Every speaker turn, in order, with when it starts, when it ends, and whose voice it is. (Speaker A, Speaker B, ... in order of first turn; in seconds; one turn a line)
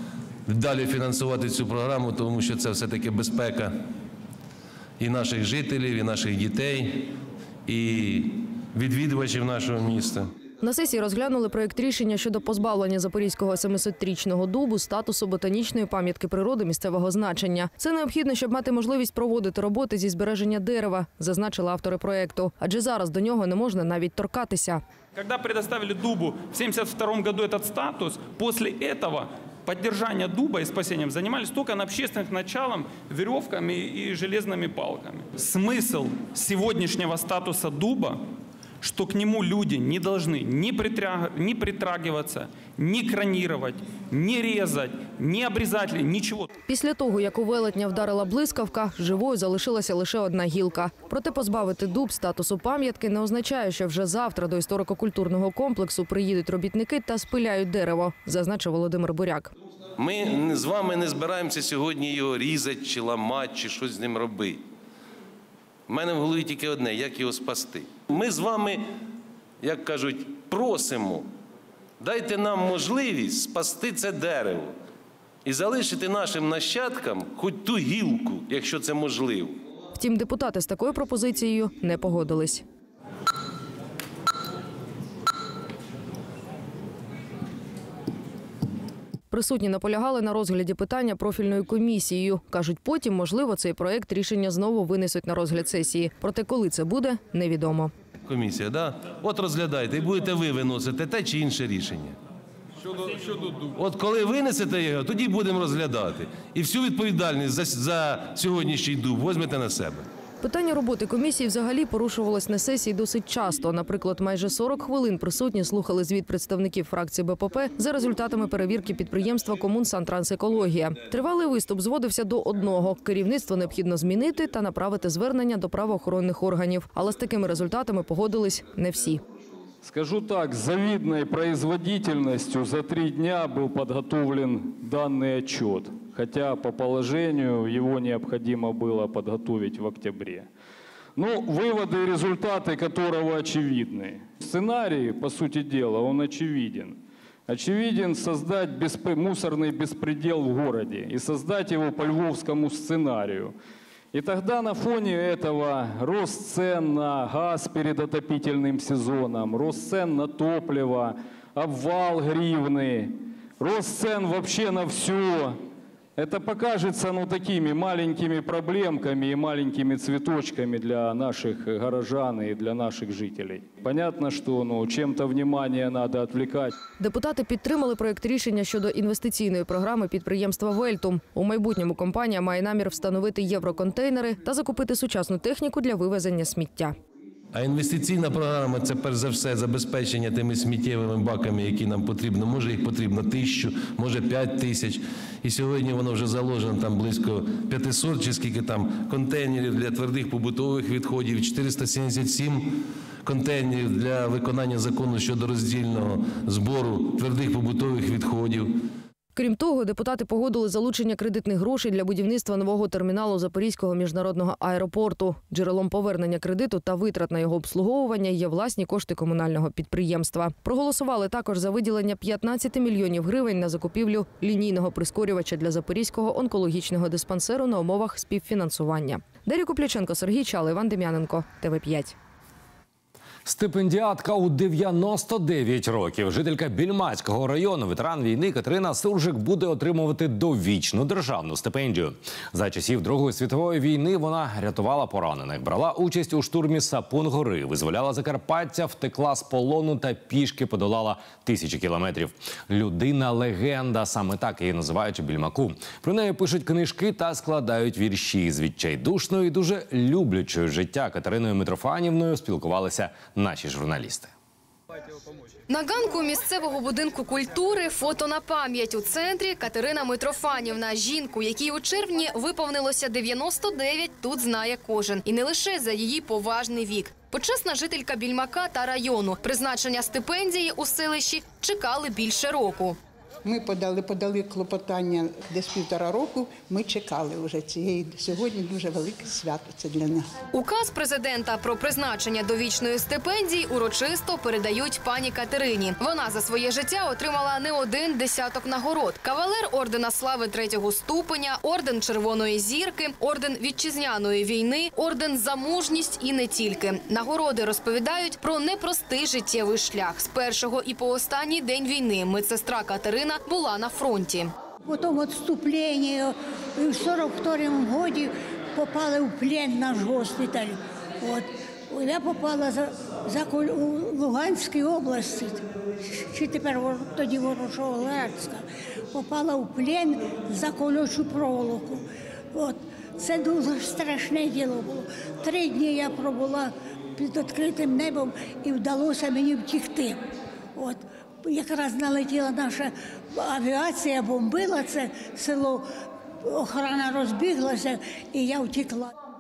Speaker A: 0.5-3.7
Speaker A: 5.0-7.1
Speaker A: 7.7-10.3
Speaker B: 10.6-24.8
Speaker C: 25.1-38.2
Speaker C: 38.8-46.5
Speaker B: 46.7-59.5
Speaker A: 60.0-64.6
Speaker A: 65.9-68.8
Speaker A: 69.6-71.3
Speaker A: 72.0-74.7
Speaker A: 75.4-79.6
Speaker B: 79.9-82.6
Speaker B: 89.3-97.9
Speaker A: 98.3-102.2
Speaker A: 103.1-110.1
Speaker B: 110.4-129.2
Speaker D: 129.8-140.5
Speaker D: 141.2-153.5
Speaker D: 154.1-165.6
Speaker D: 166.2-176.8
Speaker B: 177.0-186.9
Speaker A: 187.5-208.7
Speaker B: 209.3-232.1
Speaker E: 233.5-264.3
Speaker F: 265.7-283.0
Speaker G: 283.4-290.3
Speaker F: 290.5-314.5
Speaker H: 314.9-340.2
Speaker H: 340.8-345.8
Speaker H: 346.5-349.1